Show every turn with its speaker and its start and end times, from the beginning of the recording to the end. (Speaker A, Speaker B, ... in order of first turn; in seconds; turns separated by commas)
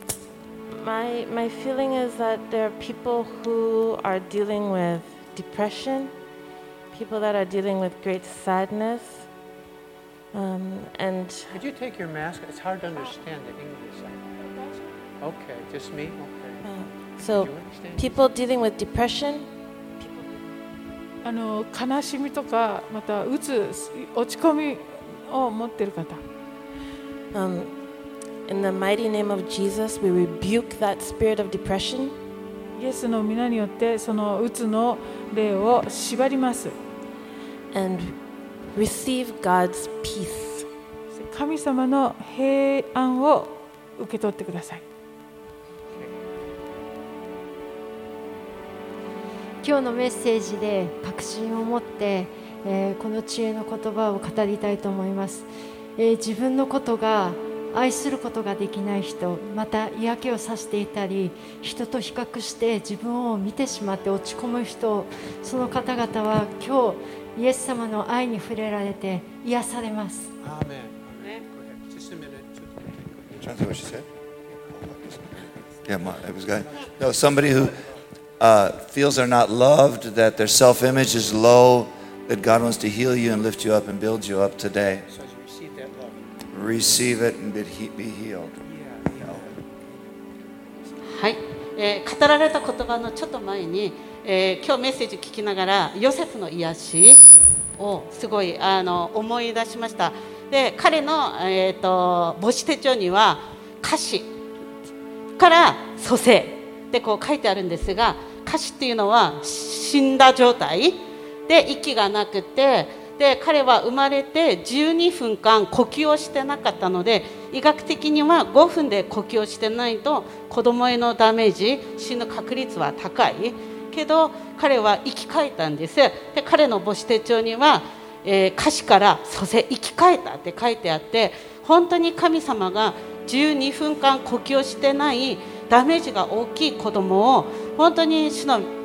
Speaker A: 0.7-6.1, Speaker A: 6.9-9.3, Speaker A: 10.3-11.6, Speaker B: 11.5-14.3, Speaker C: 14.4-14.9, Speaker B: 15.2-16.6, Speaker A: 16.6-19.5, Speaker B: 17.3-18.2, Speaker A: 20.0-20.4, Speaker C: 21.2-26.2, Speaker A: 27.3-27.7, Speaker A: 28.5-32.2, Speaker C: 32.8-36.8, Speaker A: 37.7-38.2, Speaker A: 38.7-40.7, Speaker C: 41.1-44.9, Speaker D: 49.6-70.3, Speaker B: 70.4-73.5, Speaker E: 73.4-74.1, Speaker E: 74.9-75.2, Speaker E: 75.9-77.8, Speaker B: 76.6-77.9, Speaker E: 78.4-85.0, Speaker B: 85.1-86.2, Speaker E: 86.5-88.5, Speaker B: 88.6-90.0, Speaker F: 91.1-97.2, Speaker F: 97.8-104.3, Speaker F: 105.4-138.7